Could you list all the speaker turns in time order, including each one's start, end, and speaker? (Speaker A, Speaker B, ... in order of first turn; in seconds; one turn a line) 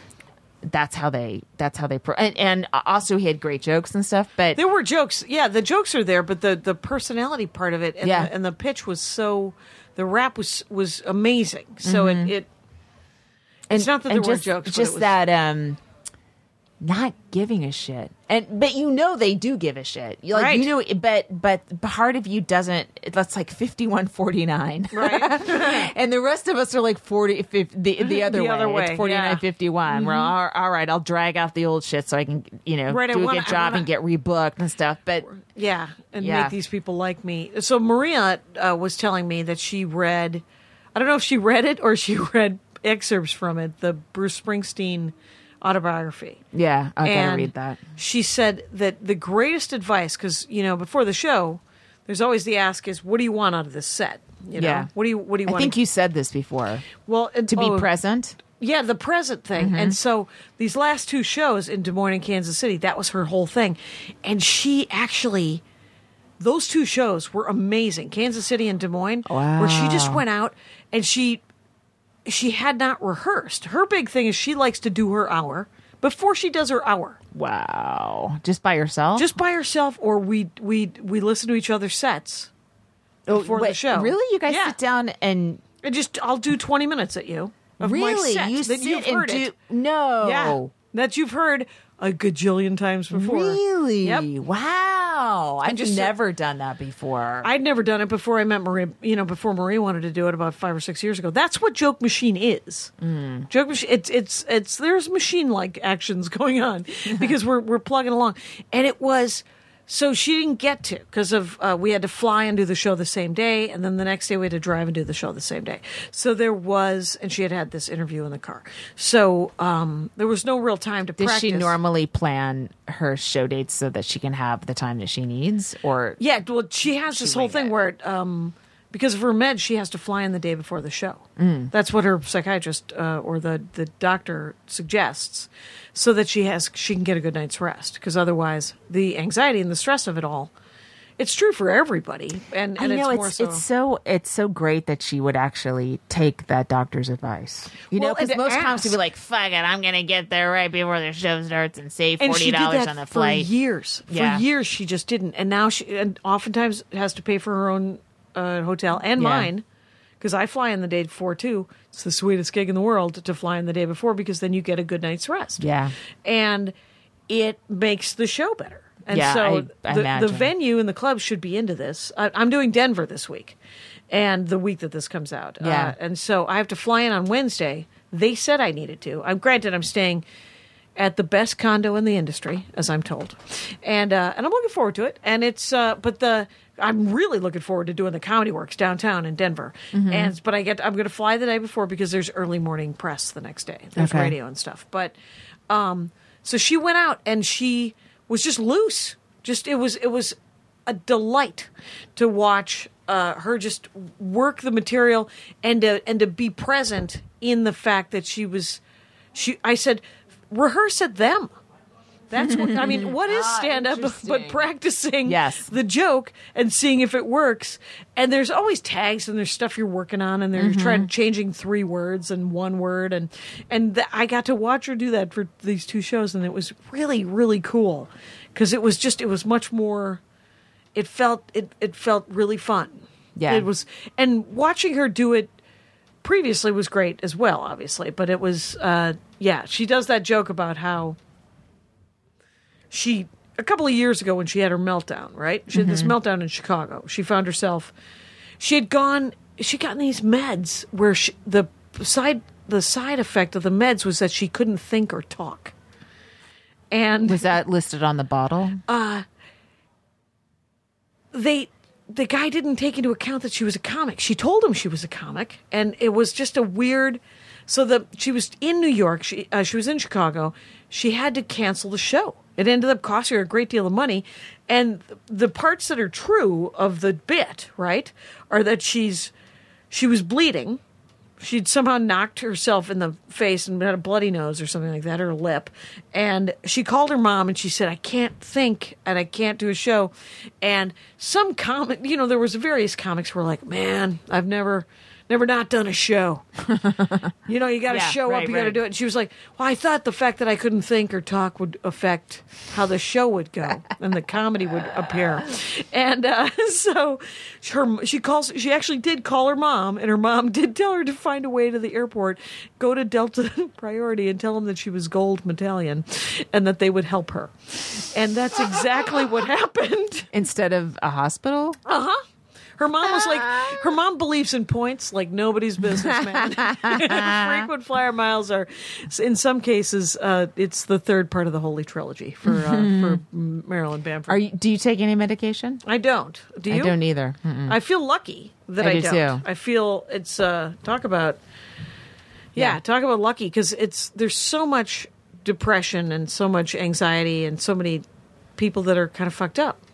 Speaker A: 0.6-4.6
Speaker B: 4.5-12.5
Speaker A: 8.0-8.3
Speaker A: 11.8-12.3
Speaker A: 13.7-15.8
Speaker B: 13.7-15.2
Speaker A: 16.8-35.3
Speaker B: 20.3-20.7
Speaker B: 24.9-25.9
Speaker B: 28.0-30.3
Speaker B: 32.9-33.9
Speaker B: 35.3-40.4
Speaker A: 36.2-36.5
Speaker B: 41.0-46.4
Speaker A: 46.5-47.8
Speaker B: 47.0-55.8
Speaker A: 54.6-54.9
Speaker A: 55.5-56.9
Speaker B: 57.1-57.9
Speaker A: 57.5-58.4
Speaker B: 58.6-65.6
Speaker A: 59.6-60.0
Speaker B: 66.4-71.4
Speaker A: 69.2-70.2
Speaker B: 72.3-77.2
Speaker A: 77.3-79.3
Speaker B: 79.2-82.5
Speaker A: 83.3-85.6
Speaker B: 83.3-84.8
Speaker B: 85.8-89.5
Speaker A: 87.8-90.7
Speaker B: 90.2-94.3
Speaker A: 93.1-97.5
Speaker B: 95.6-96.1
Speaker B: 97.4-102.9
Speaker A: 103.0-103.5
Speaker B: 103.5-121.8
Speaker A: 121.2-126.2
Speaker B: 126.2-140.5
Speaker A: 127.1-127.7
Speaker A: 131.4-131.7
Speaker B: 141.2-143.6
Speaker A: 142.8-153.5
Speaker B: 147.9-149.0
Speaker B: 152.2-159.6
Speaker A: 154.1-154.4
Speaker A: 159.2-159.5
Speaker B: 160.2-165.7
Speaker A: 165.6-165.9
Speaker B: 166.2-166.7
Speaker B: 167.3-173.6
Speaker A: 169.1-170.5
Speaker B: 174.1-180.2
Speaker A: 175.6-176.0
Speaker B: 181.0-195.1
Speaker A: 189.9-190.3
Speaker A: 194.0-194.3
Speaker B: 195.7-208.8
Speaker B: 209.3-211.5
Speaker B: 212.3-230.2
Speaker A: 212.3-214.7
Speaker A: 215.2-215.7
Speaker A: 220.6-221.1
Speaker B: 230.9-235.5
Speaker A: 233.4-233.7
Speaker B: 236.2-241.2
Speaker B: 242.9-247.9
Speaker A: 245.7-246.1
Speaker B: 248.6-255.7
Speaker B: 256.9-257.5
Speaker A: 257.3-258.8
Speaker B: 258.9-259.2
Speaker B: 261.3-279.3
Speaker B: 279.9-280.8
Speaker B: 281.4-296.5
Speaker A: 296.7-297.3
Speaker B: 297.5-320.3
Speaker A: 297.9-298.8
Speaker A: 320.3-321.8
Speaker B: 321.9-322.2
Speaker B: 322.8-334.4
Speaker A: 323.3-323.8
Speaker A: 325.9-327.7
Speaker A: 332.4-333.2
Speaker A: 334.3-335.8
Speaker B: 335.8-337.0
Speaker A: 336.7-337.8
Speaker B: 337.7-341.4
Speaker A: 338.8-339.4
Speaker A: 342.6-342.8
Speaker B: 342.6-348.1
Speaker B: 348.6-349.8